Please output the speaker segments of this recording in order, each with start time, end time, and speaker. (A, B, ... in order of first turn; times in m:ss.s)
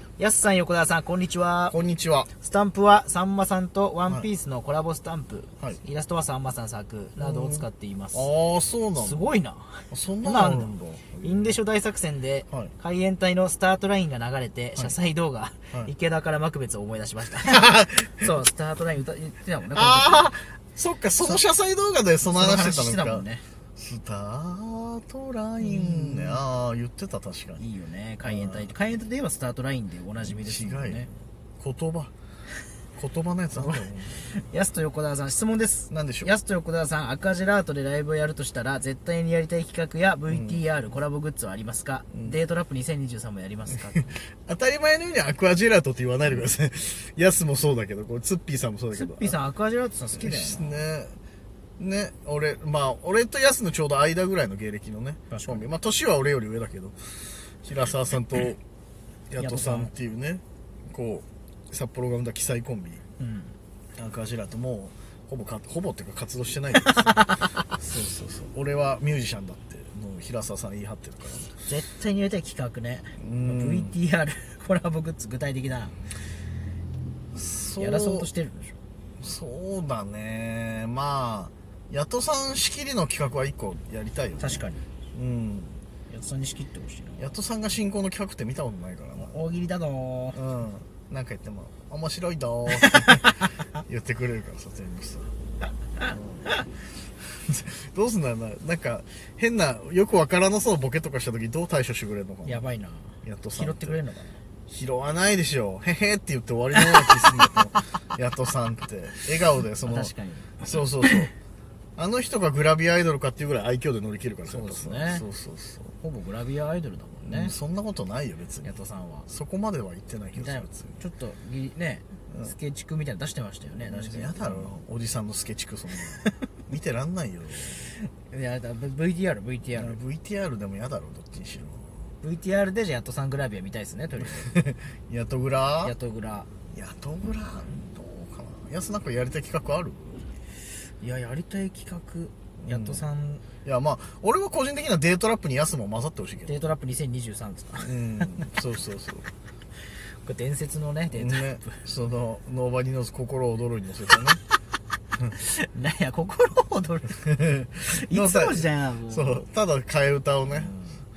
0:00.2-0:01.8 A
0:01.7-0:02.3 B
0:02.4-0:08.3 A
0:07.2-0:09.3 B
0:09.0-0:20.3 A
0:09.9-0:11.6 B
0:17.4-0:18.3 B
0:19.8-0:27.6 B
0:21.2-0:21.4 A
0:22.3-0:23.4 A
0:25.6-0:26.4 A
0:27.6-0:31.1 A
0:28.2-0:28.7 B
0:30.2-0:32.1 B
0:33.0-0:34.3 B
0:33.5-0:44.2 A
0:35.9-0:36.3 B
0:40.3-0:40.6 B
0:44.4-0:49.4 B
0:48.9-0:50.8 A
0:50.2-0:51.1 B
0:51.8-0:57.0 B
0:55.3-0:55.7 A
0:57.6-0:58.6 B
0:59.3-1:03.0 B
0:59.4-0:59.9 A
1:03.2-1:03.5 A
1:04.0-1:11.5 B
1:06.9-1:07.6 A
1:11.6-1:16.0 A
1:13.2-1:14.0 B
1:17.3-1:18.3 B
1:17.8-1:18.8 A
1:19.2-1:25.8 B
1:24.4-1:24.8 A
1:26.1-1:27.3 A
1:27.2-1:29.4 B
1:29.2-1:30.4 A
1:30.3-1:35.3 B
1:32.7-1:33.6 A
1:36.0-1:42.7 B
1:42.4-1:44.4 A
1:43.2-1:44.0 B
1:44.7-1:51.3 B
1:49.8-1:51.2 A
1:52.0-1:55.9 B
1:54.5-1:55.2 A
1:56.0-1:57.5 A
1:57.2-1:58.8 B
1:58.6-1:59.3 A
1:59.3-2:01.0 B
2:00.4-2:04.7 A
2:03.8-2:07.9 B
2:08.2-2:10.0 A
2:09.7-2:12.0 B
2:12.2-2:14.6 A
2:14.2-2:16.0 B
2:15.8-2:16.5 A
2:16.7-2:20.2 B
2:21.0-2:23.4 A
2:22.6-2:23.1 B
2:23.6-2:26.7 B
2:26.5-2:28.5 A
2:27.8-2:29.3 B
2:30.2-2:31.8 A
2:31.1-2:34.4 B
2:35.3-2:37.3 A
2:37.3-2:40.7 B
2:37.8-2:39.4 A
2:40.4-2:41.0 A